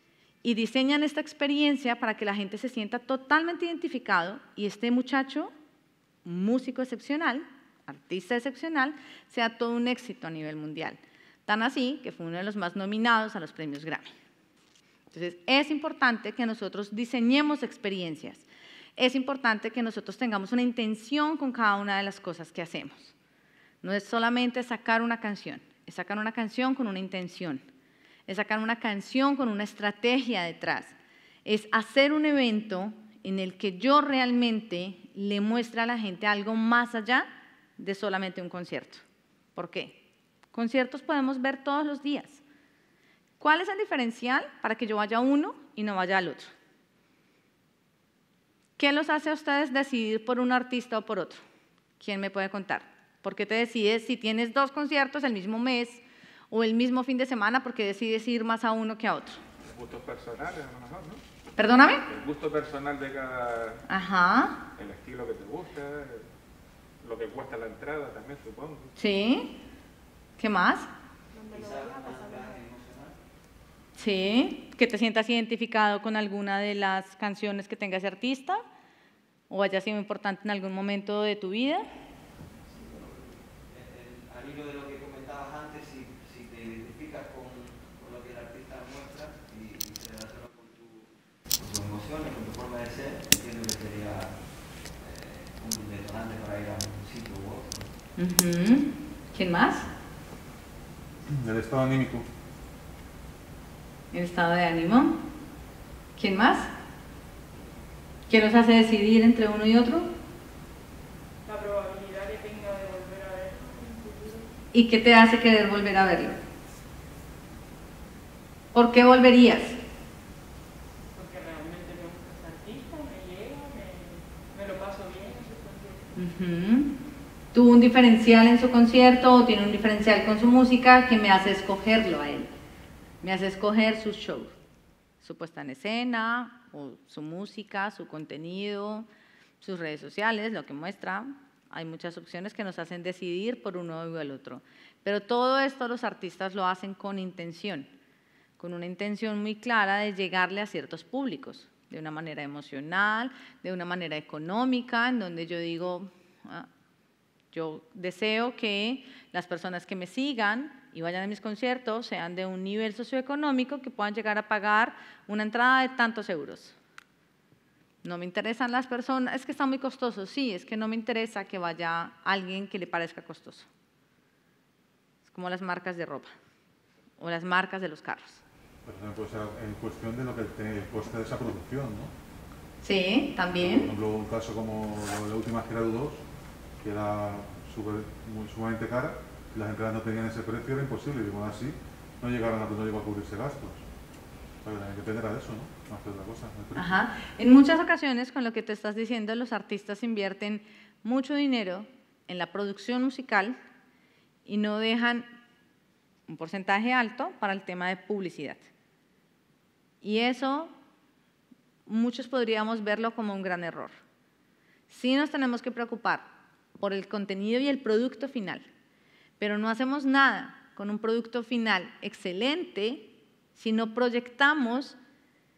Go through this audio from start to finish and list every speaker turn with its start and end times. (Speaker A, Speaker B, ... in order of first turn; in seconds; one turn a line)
Speaker A: 0.4-5.5
Speaker A: 6.2-14.1
Speaker A: 15.1-18.4
Speaker A: 19.0-23.1
Speaker A: 23.8-27.6
Speaker A: 28.3-37.3
Speaker A: 37.8-39.0
Speaker A: 39.5-40.0
Speaker A: 40.5-42.4
Speaker A: 43.4-46.5
Speaker A: 48.8-51.4
Speaker A: 52.0-59.4
Speaker B: 59.6-61.2
Speaker A: 61.6-62.0
Speaker B: 62.1-63.8
Speaker A: 63.9-64.6
Speaker B: 64.8-66.2
Speaker B: 67.0-68.9
Speaker A: 69.0-69.5
Speaker A: 70.4-70.9
Speaker C: 71.5-73.1
Speaker A: 74.0-78.6
Speaker A: 79.5-81.8
Speaker C: 82.7-94.3
Speaker C: 95.0-97.9
Speaker A: 98.2-99.9
Speaker D: 101.3-102.2
Speaker A: 104.1-105.2
Speaker A: 106.2-106.7
Speaker A: 108.3-110.1
Speaker E: 111.5-114.6
Speaker A: 114.7-116.4
Speaker A: 118.7-119.8
Speaker E: 121.1-126.2
Speaker A: 126.2-126.9
Speaker A: 127.5-132.5
Speaker A: 133.2-134.5
Speaker A: 135.2-139.1
Speaker A: 139.6-147.9
Speaker A: 148.6-156.7
Speaker A: 157.5-166.8
Speaker A: 168.0-173.7
Speaker A: 175.2-176.3
Speaker A: 177.2-178.4
Speaker D: 178.8-182.1
Speaker A: 182.8-183.9
Speaker D: 183.6-186.2
Speaker D: 186.8-193.8
Speaker D: 194.6-197.0
Speaker A: 196.7-203.6
Speaker A: 204.4-205.3
Speaker A: 206.3-208.7
Speaker A: 210.0-210.7
Speaker A: 211.9-213.9
Speaker A: 214.9-216.2
Speaker A: 216.8-218.6
Speaker A: 219.4-225.0